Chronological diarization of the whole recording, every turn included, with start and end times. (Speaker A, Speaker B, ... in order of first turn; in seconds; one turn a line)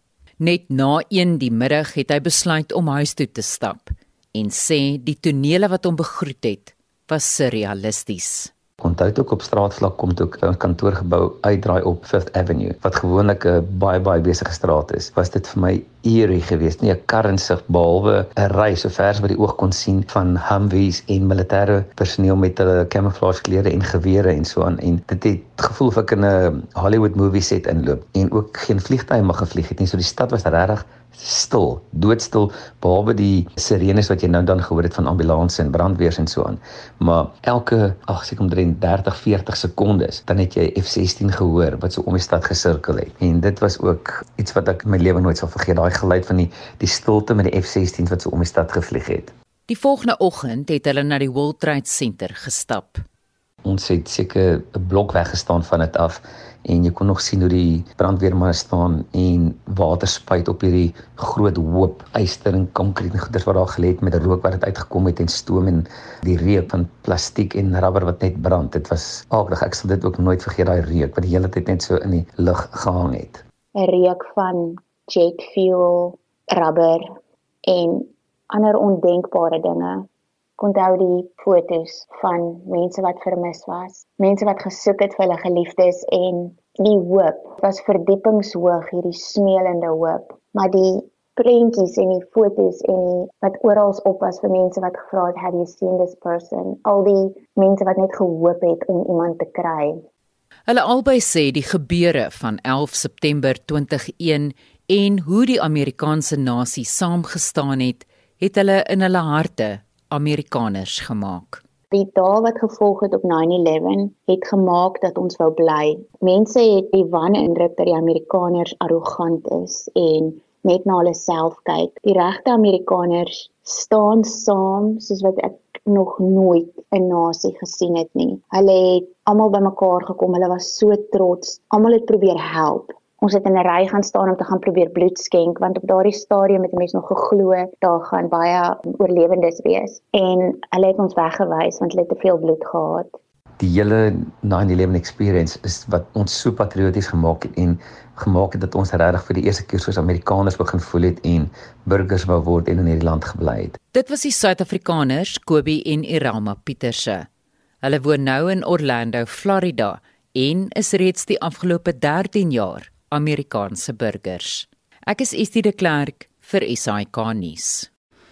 Speaker A: 0.4-8.5
Speaker B: 8.8-49.3
Speaker A: 49.7-53.0
Speaker B: 53.6-73.4
Speaker C: 73.8-77.1
Speaker C: 77.7-80.1
Speaker C: 80.6-100.0
Speaker A: 100.7-111.6
Speaker C: 111.9-143.2
Speaker B: 143.6-153.8
Speaker A: 153.9-157.3
Speaker A: 157.8-167.9